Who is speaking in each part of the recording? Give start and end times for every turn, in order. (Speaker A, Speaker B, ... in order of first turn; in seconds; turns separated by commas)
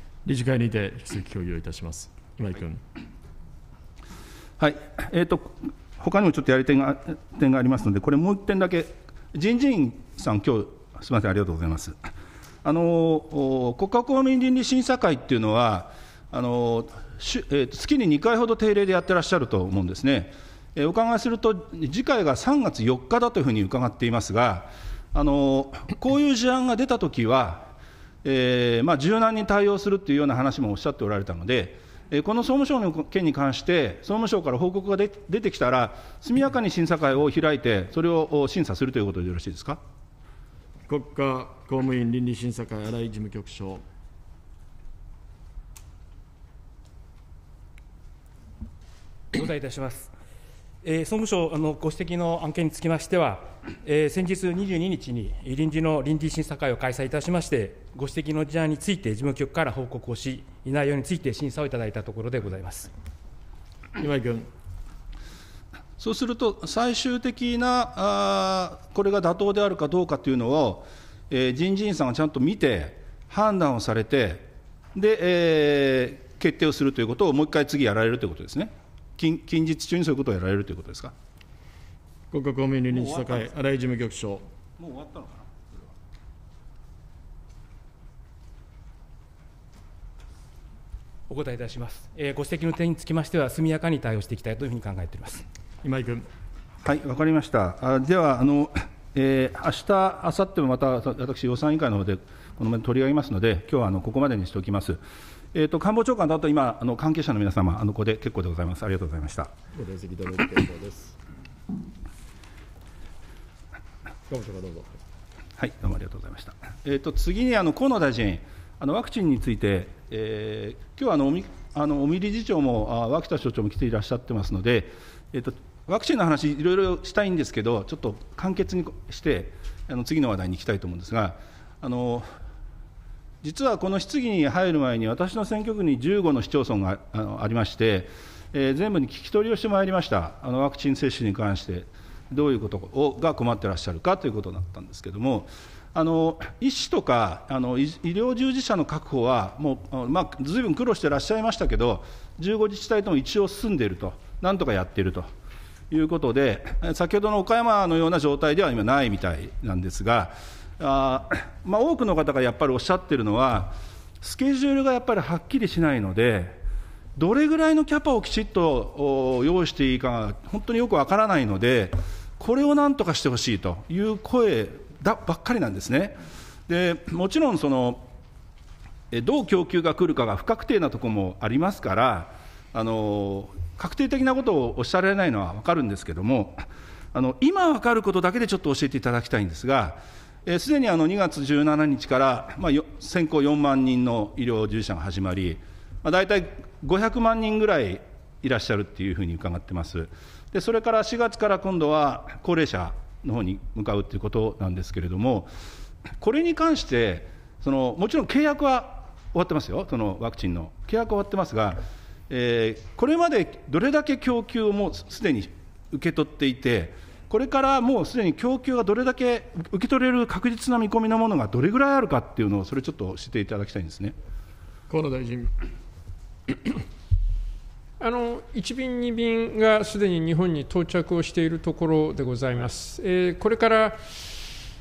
Speaker A: 0.2-2.8, Speaker B: 4.6-12.0, Speaker B: 12.6-27.7, Speaker B: 28.2-39.8, Speaker A: 40.9-43.9, Speaker C: 49.3-50.1, Speaker C: 50.8-62.9, Speaker A: 64.0-64.5, Speaker B: 66.0-81.1, Speaker A: 82.3-84.4, Speaker B: 82.9-83.5, Speaker B: 84.8-85.5, Speaker C: 91.3-95.5, Speaker A: 95.8-96.3, Speaker B: 96.8-105.0, Speaker B: 105.5-109.5, Speaker A: 109.7-111.2, Speaker A: 114.3-115.0, Speaker B: 115.6-132.3, Speaker B: 133.4-155.3, Speaker B: 155.9-166.6, Speaker B: 167.2-178.1, Speaker B: 179.1-186.6, Speaker B: 187.1-205.5, Speaker B: 206.2-224.2, Speaker A: 224.9-225.5, Speaker D: 228.0-234.4